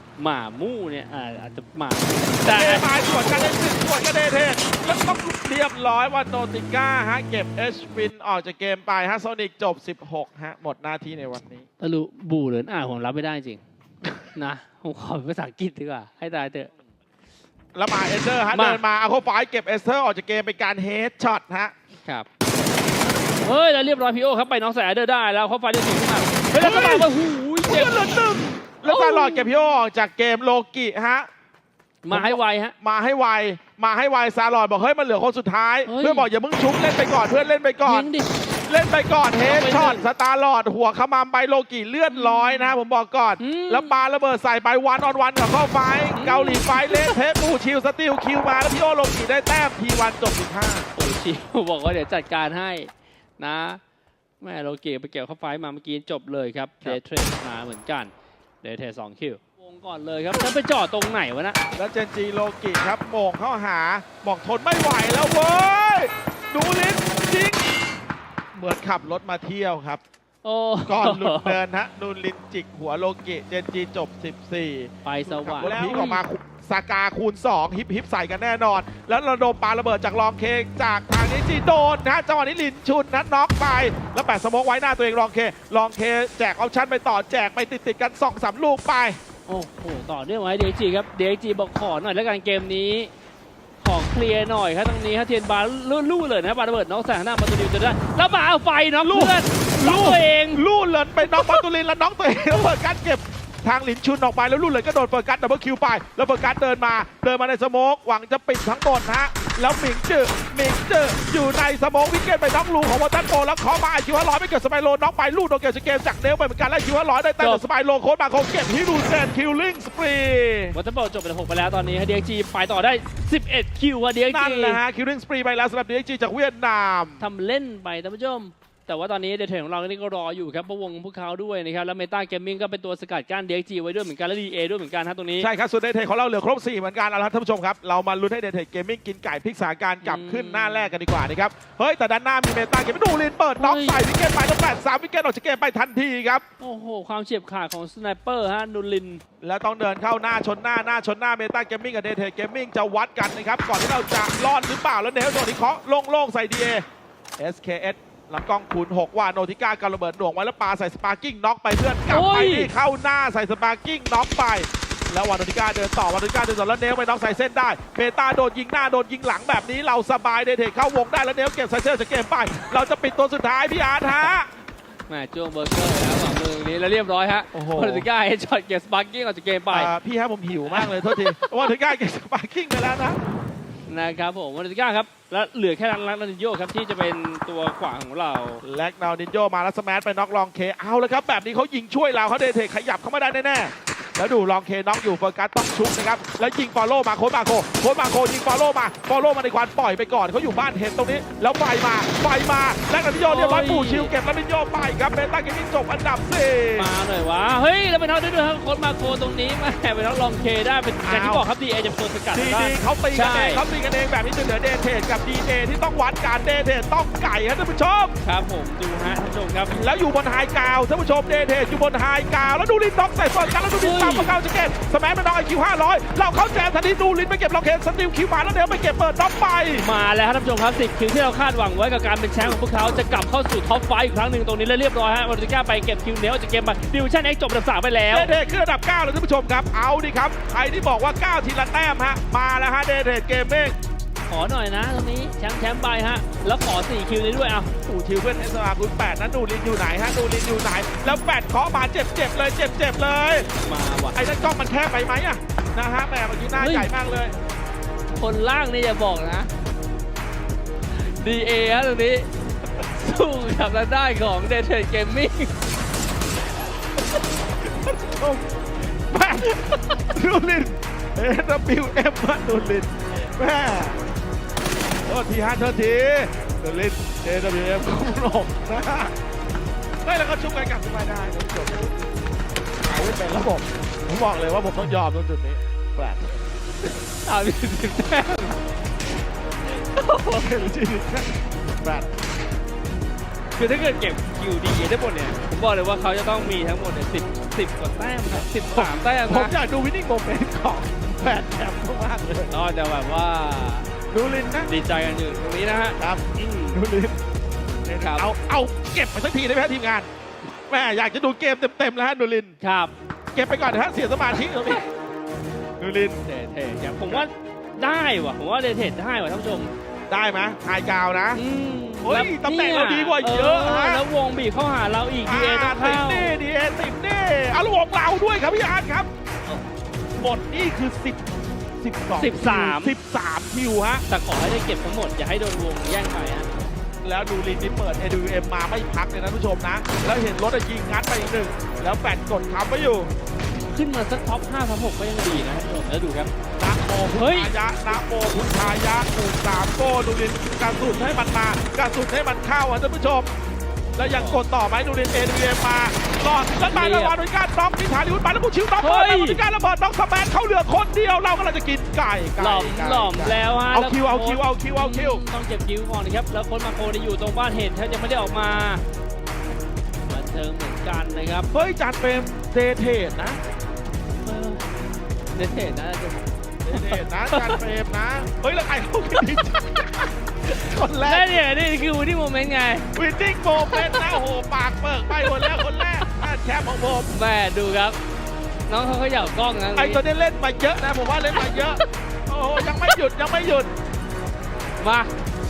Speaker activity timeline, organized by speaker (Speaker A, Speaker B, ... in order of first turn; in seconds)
Speaker A: 0.2-2.9, 11.8-16.7, 18.5-18.8, 23.4-28.1, 28.8-29.5, 32.0-32.8, 35.9-36.3, 37.9-38.3, 39.5-40.1, 42.1-42.8, 43.4-44.0, 46.1-47.2, 51.0-53.8, 54.4-61.6, 70.4-71.6, 75.0-76.2, 89.5-93.1, 93.8-100.6, 101.2-101.6, 120.7-124.8, 127.2-135.5, 140.0-140.9, 143.6-144.0, 146.6-149.2, 162.1-162.7, 175.1-179.9, 180.7-181.7, 183.9-188.6, 203.2-204.1, 206.8-213.6, 218.2-219.8, 223.8-224.3, 229.8-238.3, 244.3-247.7, 253.6-254.2, 256.6-256.9, 258.1-259.5, 260.9-262.3, 262.8-265.6, 287.1-288.6, 289.7-290.6, 293.6-299.6, 302.5-303.9, 304.6-306.8, 308.0-308.3, 312.6-312.9, 316.2-319.7, 321.4-326.4, 332.2-333.0, 334.1-336.6, 343.7-346.3, 347.1-347.5, 354.1-354.4, 356.6-357.1, 358.8-359.4, 362.4-368.8, 370.1-371.5, 374.2-374.8, 375.3-377.6, 380.5-382.9, 383.7-384.2, 385.1-386.1, 387.1-388.0, 388.7-390.0, 391.4-391.8, 394.8-395.1
Speaker B: 2.5-11.7, 17.7-21.7, 26.5-27.1, 27.6-31.3, 32.1-38.1, 38.7-50.9, 61.8-67.7, 68.5-70.0, 70.9-89.2, 99.0-120.7, 124.3-127.3, 135.4-146.4, 149.4-156.8, 157.4-174.5, 177.5-178.1, 179.7-183.2, 188.6-206.9, 211.0-211.5, 212.3-218.1, 219.7-229.8, 238.1-243.8, 247.8-253.5, 254.1-257.4, 267.7-274.0, 275.1-279.1, 280.1-281.9, 282.8-286.4, 290.3-292.1, 298.7-302.6, 304.1-304.7, 306.0-307.2, 307.8-310.1, 310.7-312.6, 313.3-314.8, 315.8-316.2, 320.1-321.4, 322.0-324.0, 325.2-329.1, 330.2-331.2, 331.8-334.0, 337.0-343.1, 346.6-353.3, 353.9-365.2, 371.5-373.4, 376.6-381.3, 382.9-387.1, 389.8-393.7